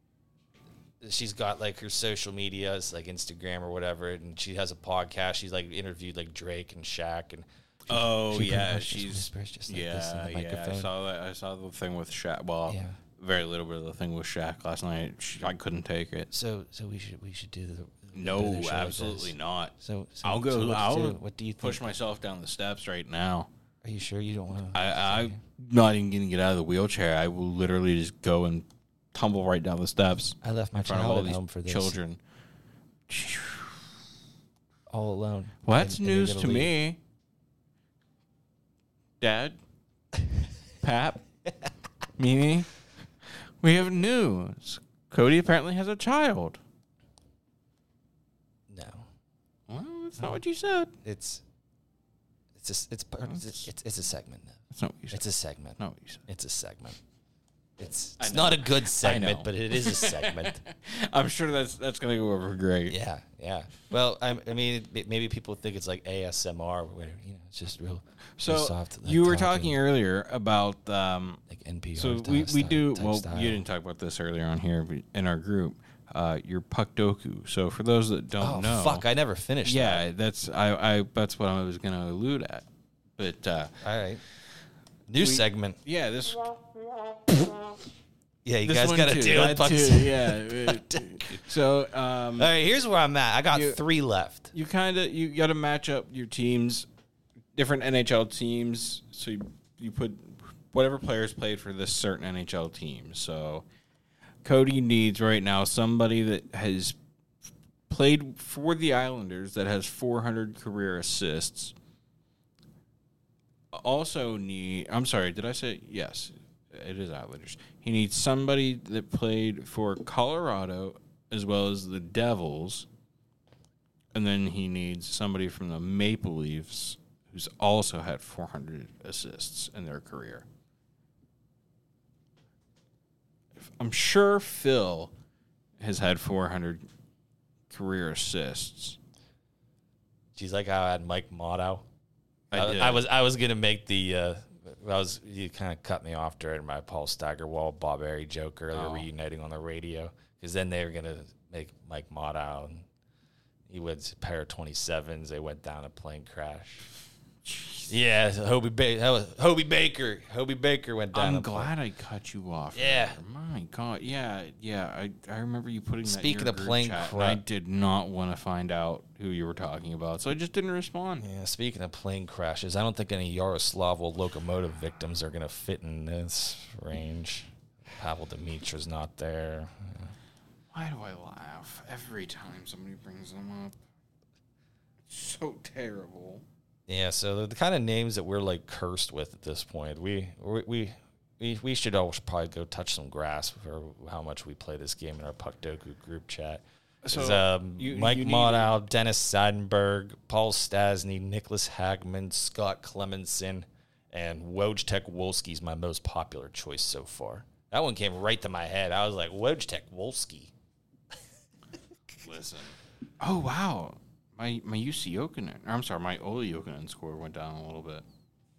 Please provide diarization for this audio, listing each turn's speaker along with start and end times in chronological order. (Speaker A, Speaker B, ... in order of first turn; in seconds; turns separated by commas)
Speaker A: 1.0-10.9, Speaker B: 7.9-16.3, Speaker A: 12.7-13.0, Speaker A: 16.3-21.9, Speaker B: 18.1-23.5, Speaker A: 23.8-25.4, Speaker B: 24.7-32.2, Speaker A: 30.4-32.0, Speaker B: 33.1-33.8, Speaker A: 34.9-36.7, Speaker B: 35.6-37.0, Speaker B: 39.2-39.6, Speaker B: 40.8-41.2, Speaker B: 42.2-42.7, Speaker B: 43.2-46.6, Speaker A: 48.7-49.1, Speaker B: 49.7-50.9, Speaker A: 51.0-51.4, Speaker A: 52.5-57.0, Speaker B: 53.3-53.6, Speaker B: 54.7-55.2, Speaker B: 55.8-56.2, Speaker A: 57.8-60.6, Speaker B: 58.2-63.0, Speaker A: 62.9-69.8, Speaker B: 68.4-71.4, Speaker A: 71.5-73.6, Speaker B: 71.9-79.0, Speaker A: 78.4-80.0, Speaker B: 79.6-82.7, Speaker B: 83.2-83.7, Speaker A: 83.8-84.2, Speaker A: 85.1-85.8, Speaker B: 85.2-86.6, Speaker A: 88.4-91.5, Speaker B: 88.6-92.5, Speaker A: 92.3-94.5, Speaker B: 93.5-93.8, Speaker B: 94.5-96.9, Speaker B: 97.5-103.6, Speaker B: 104.4-107.0, Speaker B: 107.9-111.7, Speaker B: 113.7-122.9, Speaker B: 124.1-130.4, Speaker B: 133.6-135.1, Speaker B: 135.8-136.8, Speaker B: 137.7-139.0, Speaker A: 140.3-141.8, Speaker B: 142.5-143.0, Speaker A: 142.5-152.8, Speaker B: 148.7-149.1, Speaker A: 153.7-156.9, Speaker B: 157.4-157.9, Speaker A: 157.9-161.7, Speaker B: 161.1-171.2, Speaker A: 162.7-163.2, Speaker A: 166.0-167.4, Speaker A: 171.2-180.1, Speaker B: 180.7-183.8, Speaker B: 185.1-186.4, Speaker A: 186.9-210.5, Speaker B: 197.0-198.8, Speaker B: 212.2-218.0